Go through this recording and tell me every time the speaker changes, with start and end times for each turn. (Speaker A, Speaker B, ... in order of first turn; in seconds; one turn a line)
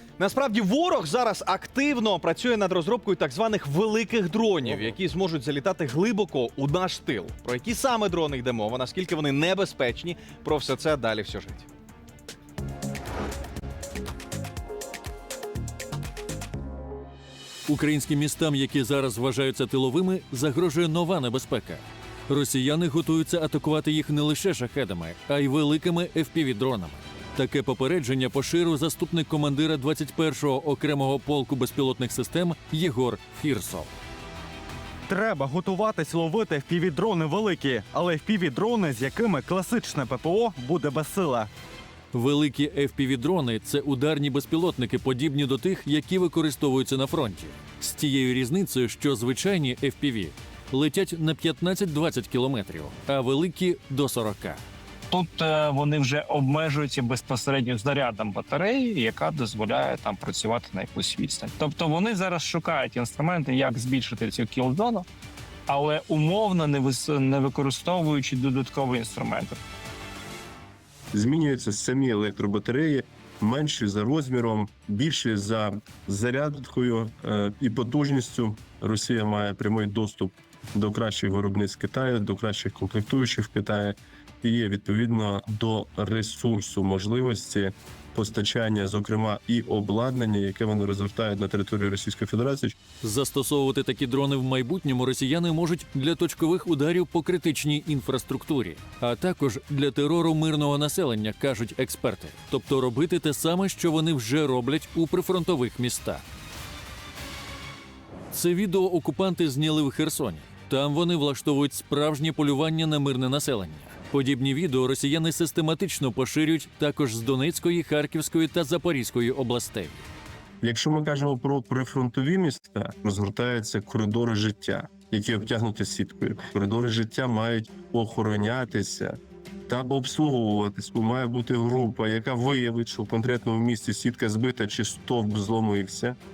Speaker A: 0.2-11.7
Speaker B: 17.7-33.9
Speaker C: 35.1-41.5
Speaker B: 42.1-54.6
Speaker D: 55.1-65.0
Speaker D: 65.7-69.6
Speaker E: 71.1-92.8
Speaker B: 93.0-106.2
Speaker B: 108.3-120.0
Speaker E: 120.6-136.2